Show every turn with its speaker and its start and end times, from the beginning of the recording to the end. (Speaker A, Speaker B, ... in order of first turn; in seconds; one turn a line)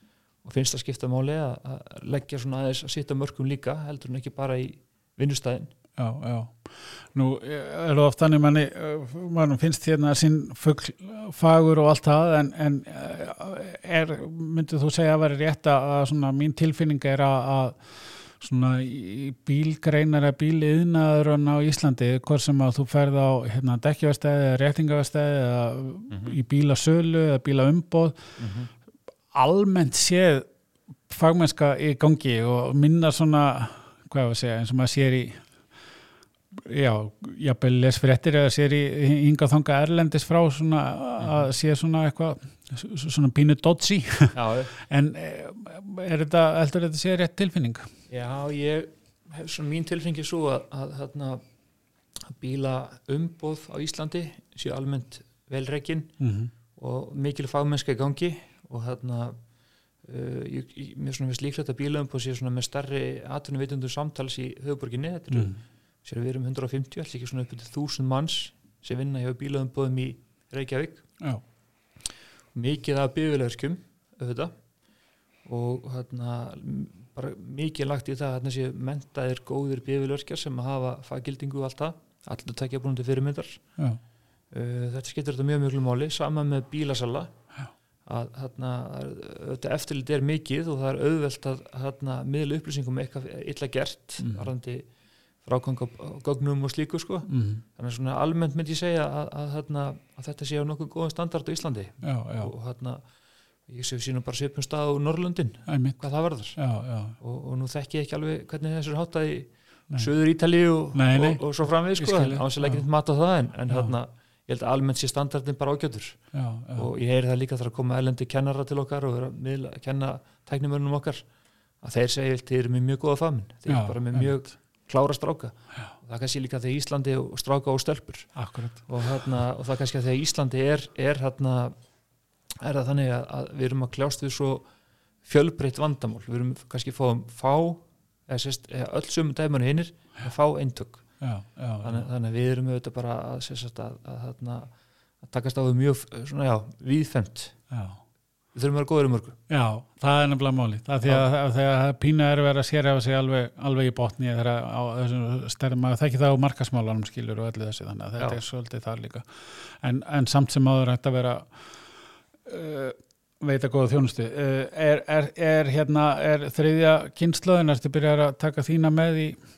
Speaker A: 0.4-5.7
Speaker B: 6.0-28.2
Speaker A: 26.1-26.4
Speaker A: 28.4-28.7
Speaker B: 29.3-30.5
Speaker B: 31.1-35.4
Speaker B: 36.5-47.9
Speaker A: 41.2-41.5
Speaker A: 44.3-44.7
Speaker A: 48.1-51.4
Speaker A: 52.4-56.1
Speaker B: 56.2-56.5
Speaker A: 56.8-59.4
Speaker A: 60.0-71.0
Speaker B: 65.3-65.6
Speaker A: 72.6-74.5
Speaker A: 75.5-83.6
Speaker A: 84.5-87.3
Speaker A: 88.1-94.8
Speaker B: 94.2-94.5
Speaker A: 95.4-103.0
Speaker B: 97.3-97.6
Speaker B: 102.0-102.5
Speaker A: 103.7-106.6
Speaker B: 105.7-106.0
Speaker B: 106.6-107.2
Speaker A: 107.2-116.2
Speaker B: 110.9-112.8
Speaker B: 113.7-114.0
Speaker B: 116.3-116.9
Speaker A: 116.8-121.2
Speaker A: 121.8-128.3
Speaker B: 123.7-124.4
Speaker B: 128.3-128.9
Speaker A: 128.9-131.8
Speaker A: 132.6-134.7
Speaker A: 135.3-141.0
Speaker B: 141.2-142.1
Speaker A: 141.8-144.7
Speaker A: 145.2-147.6
Speaker B: 147.7-148.0
Speaker A: 148.6-149.4
Speaker B: 149.5-161.5
Speaker B: 162.5-169.4